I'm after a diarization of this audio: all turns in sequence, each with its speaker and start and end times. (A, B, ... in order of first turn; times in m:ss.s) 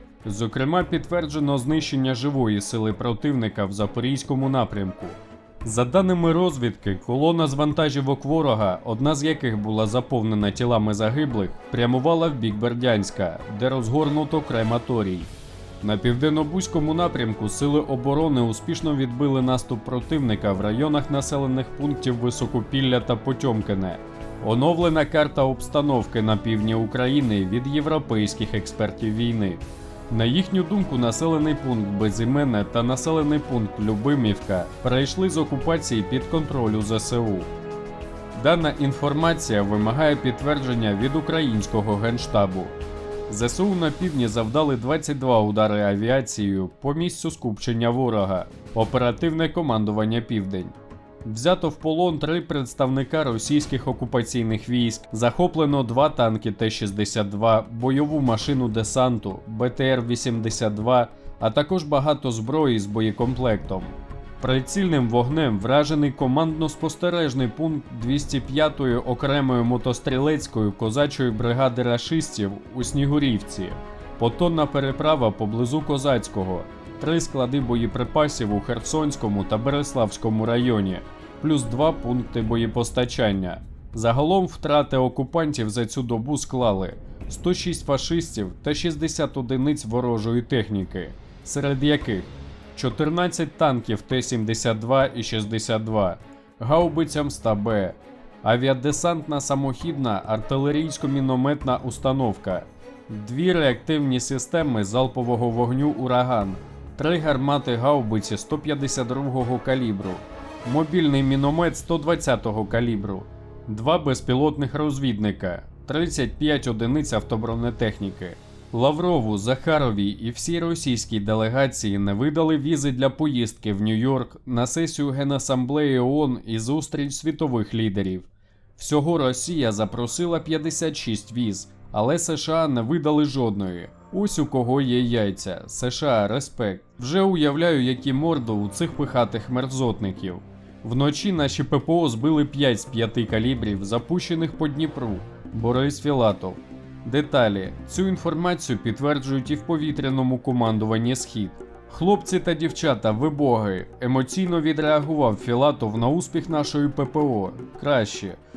0:00.2-0:37.5 A
0:38.3-0:42.8 A
0:43.3-0:50.7 A
0:51.2-2:38.4 A